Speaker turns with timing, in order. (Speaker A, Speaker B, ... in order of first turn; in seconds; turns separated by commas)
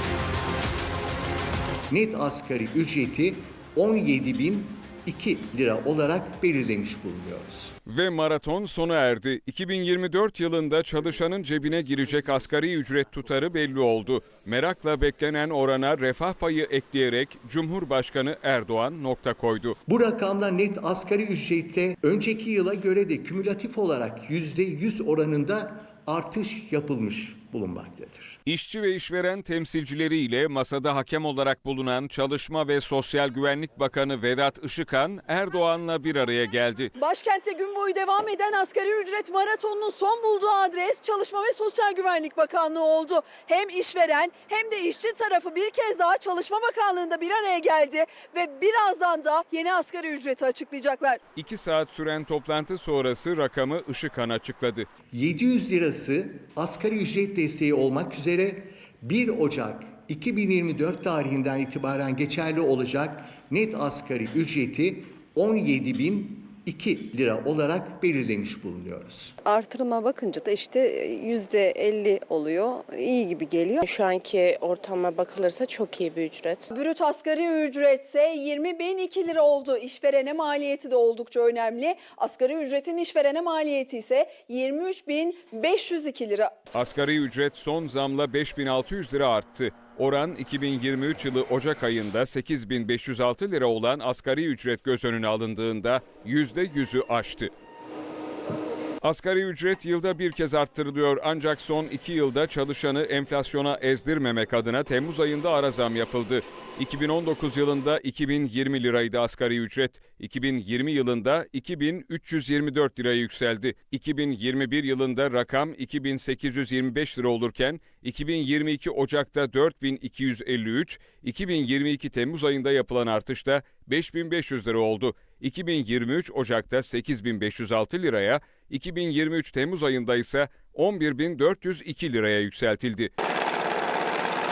Speaker A: 1.9-7.7, Speaker B: 7.9-19.8, Speaker A: 19.9-28.4, Speaker B: 28.4-36.9, Speaker C: 37.0-51.2, Speaker B: 51.4-54.9, Speaker A: 55.1-69.3, Speaker D: 69.4-73.8, Speaker E: 73.8-76.6, Speaker C: 76.7-86.6, Speaker B: 86.7-97.5, Speaker B: 99.0-133.1